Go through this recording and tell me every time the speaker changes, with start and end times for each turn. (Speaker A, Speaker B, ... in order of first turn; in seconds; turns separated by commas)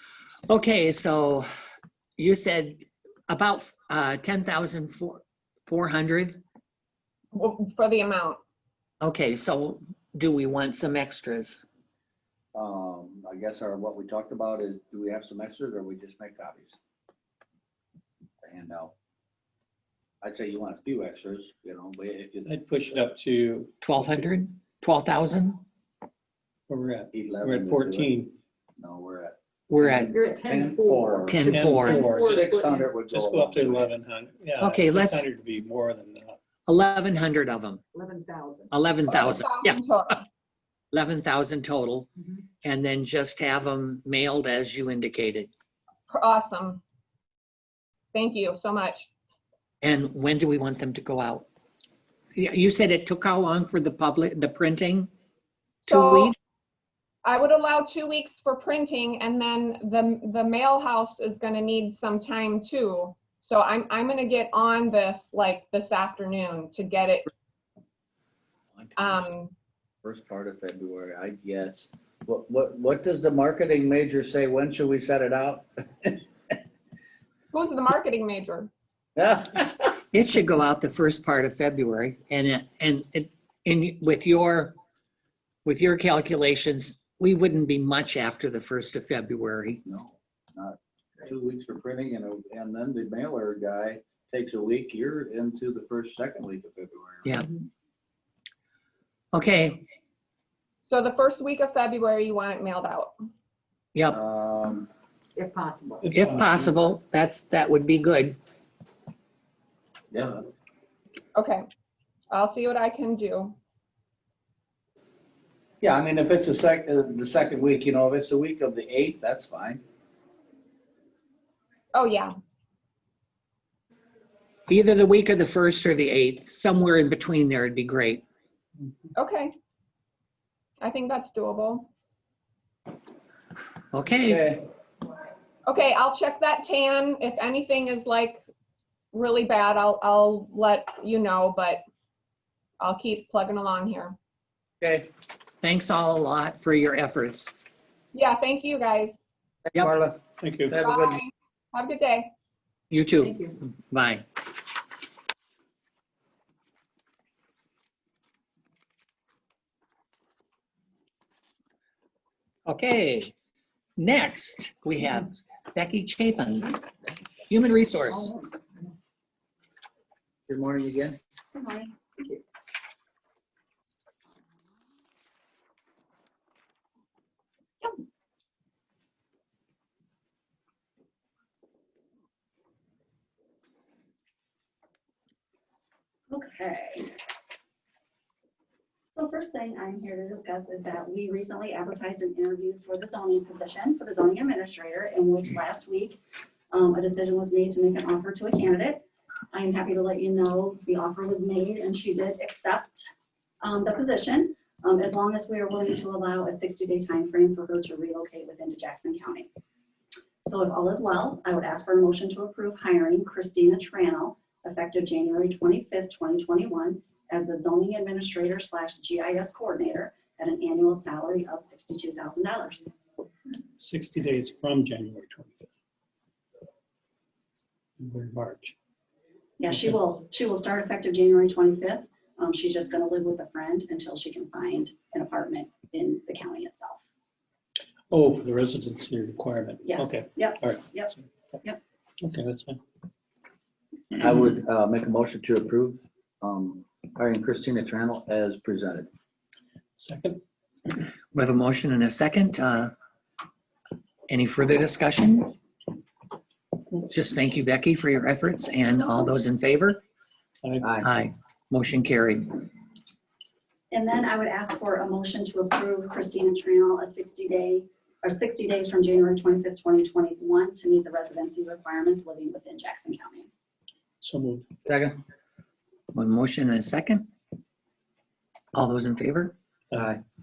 Speaker A: 0.5-1.4, Speaker A: 2.2-6.4, Speaker B: 7.3-8.4, Speaker A: 9.0-11.6, Speaker C: 12.5-16.8, Speaker C: 18.4-18.9, Speaker C: 20.2-23.1, Speaker D: 22.4-24.2, Speaker A: 23.8-25.6, Speaker D: 26.7-28.4, Speaker C: 27.1-28.1, Speaker C: 28.8-33.9, Speaker A: 29.7-30.1, Speaker E: 30.1-33.0, Speaker A: 31.3-32.0, Speaker D: 31.5-32.4, Speaker D: 33.1-36.4, Speaker A: 34.6-35.3, Speaker A: 36.6-37.8, Speaker E: 37.9-38.7, Speaker A: 38.7-39.8, Speaker B: 39.1-40.2, Speaker A: 40.9-42.1, Speaker A: 42.6-45.5, Speaker B: 46.1-46.8, Speaker B: 48.1-49.1, Speaker A: 49.8-51.5, Speaker A: 52.4-55.1, Speaker B: 55.8-56.3, Speaker A: 55.9-56.4, Speaker B: 57.2-67.3, Speaker B: 69.0-69.5, Speaker C: 70.0-76.2, Speaker B: 77.5-78.7, Speaker C: 79.2-79.9, Speaker A: 80.1-84.7, Speaker A: 85.6-89.8, Speaker C: 89.8-97.4, Speaker A: 99.3-99.8, Speaker B: 100.9-103.1, Speaker C: 104.1-104.9, Speaker E: 105.3-106.1, Speaker D: 106.0-106.7, Speaker A: 106.1-108.4, Speaker C: 110.1-110.5, Speaker B: 111.3-111.6, Speaker B: 112.3-113.5, Speaker C: 115.8-119.8, Speaker B: 121.9-122.3, Speaker A: 124.7-128.2, Speaker B: 129.2-129.5, Speaker B: 130.8-131.9, Speaker A: 133.9-134.4, Speaker C: 134.2-134.6, Speaker B: 135.7-138.4, Speaker B: 139.1-141.8, Speaker B: 142.8-144.2, Speaker C: 144.8-145.1, Speaker A: 145.6-147.5, Speaker B: 148.1-149.2, Speaker C: 149.7-151.2, Speaker D: 150.4-150.8, Speaker B: 150.8-152.3, Speaker A: 152.9-154.2, Speaker A: 162.7-163.3, Speaker A: 164.0-166.7, Speaker A: 167.5-168.3, Speaker E: 168.1-168.5, Speaker C: 170.5-171.2, Speaker F: 186.3-187.1, Speaker F: 189.1-196.2, Speaker F: 196.7-203.1, Speaker F: 203.6-209.5, Speaker F: 210.4-222.8, Speaker D: 223.8-225.7, Speaker D: 228.0-228.7, Speaker F: 229.6-237.0, Speaker D: 238.1-241.2, Speaker F: 239.8-241.1, Speaker D: 242.2-242.8, Speaker C: 244.1-249.1, Speaker D: 250.0-250.4, Speaker A: 251.3-252.9, Speaker A: 254.3-255.5, Speaker A: 257.1-260.0, Speaker D: 260.6-261.0, Speaker C: 260.8-261.1, Speaker A: 261.0-262.6, Speaker F: 263.9-273.5, Speaker D: 274.2-274.7, Speaker C: 274.9-275.2, Speaker A: 276.1-277.2, Speaker A: 278.7-279.5, Speaker C: 279.9-280.2